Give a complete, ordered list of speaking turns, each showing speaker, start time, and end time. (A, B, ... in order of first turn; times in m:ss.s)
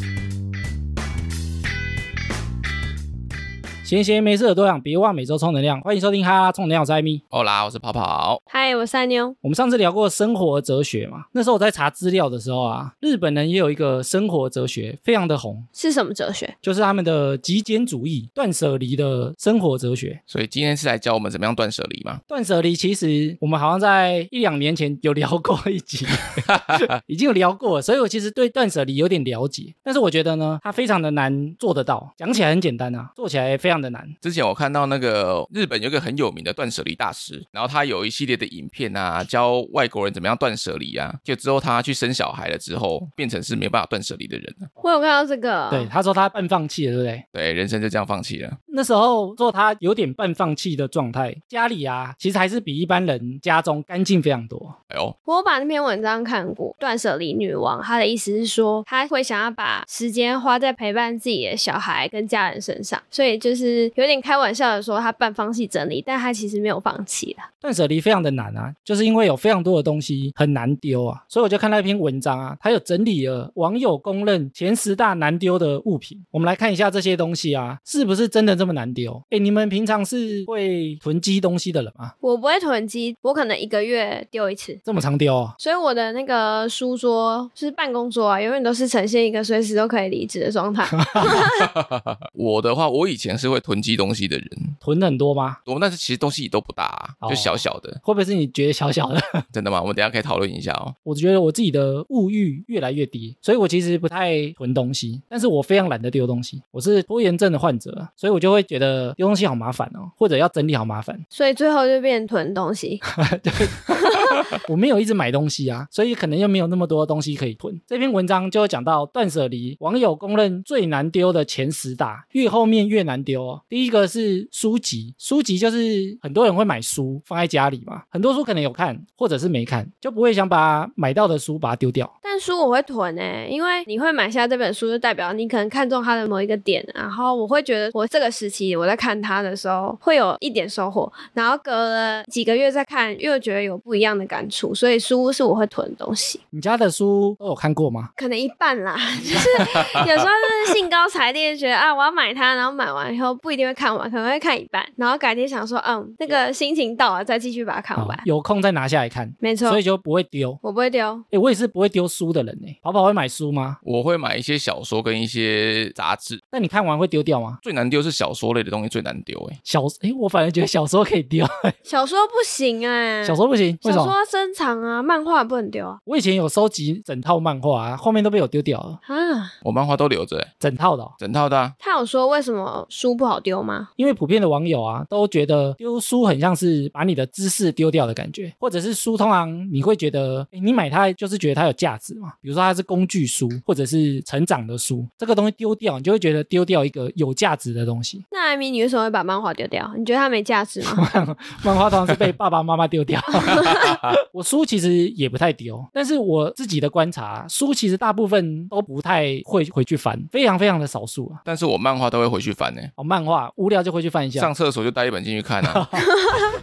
0:03.8-0:07.2 A
0:07.3-0:08.4 B
0:08.5-0:09.4 C
0:09.4-0:15.6 A
0:15.8-0:16.5 C
0:16.6-0:20.2 A
0:20.3-0:22.2 B
0:22.3-0:34.1 A
0:34.2-0:44.7 B
0:44.8-0:45.9 C
0:45.7-0:47.2 A
0:47.3-0:48.6 B
0:48.7-0:54.7 A
0:54.9-0:55.1 B
0:55.3-1:07.5 C
1:07.6-1:22.1 A
1:22.2-1:24.8 C
1:24.8-1:25.6 A
1:25.6-1:31.7 C
1:31.0-1:31.4 A
1:31.3-1:34.8 B
1:34.8-1:35.6 A
1:35.6-1:38.0 B
1:37.2-1:39.4 A
1:39.5-1:40.9 B
1:41.0-1:51.2 A
1:51.3-1:53.0 C
1:53.1-2:12.1 A
1:54.1-1:54.5 C
2:12.2-2:26.4 C
2:26.5-2:28.1 A
2:28.2-2:38.2 C
2:37.9-2:40.6 A
2:39.4-2:39.8 C
2:40.6-2:41.2 C
2:41.3-2:43.8 A
2:43.8-2:46.4 B
2:46.5-2:47.6 A
2:47.6-2:49.6 B
2:49.6-2:51.8 A
2:51.8-2:56.0 C
2:53.2-2:54.1 A
2:56.0-2:59.0 A
2:59.0-2:59.5 C
2:59.6-3:00.5 B
3:00.6-3:01.1 A
3:01.2-3:01.7 B
3:01.8-3:03.9 C
3:04.0-3:18.2 A
3:18.3-3:21.1 C
3:20.8-3:31.4 A
3:31.4-3:32.9 B
3:33.0-3:34.5 A
3:34.4-3:35.9 B
3:35.7-3:36.1 A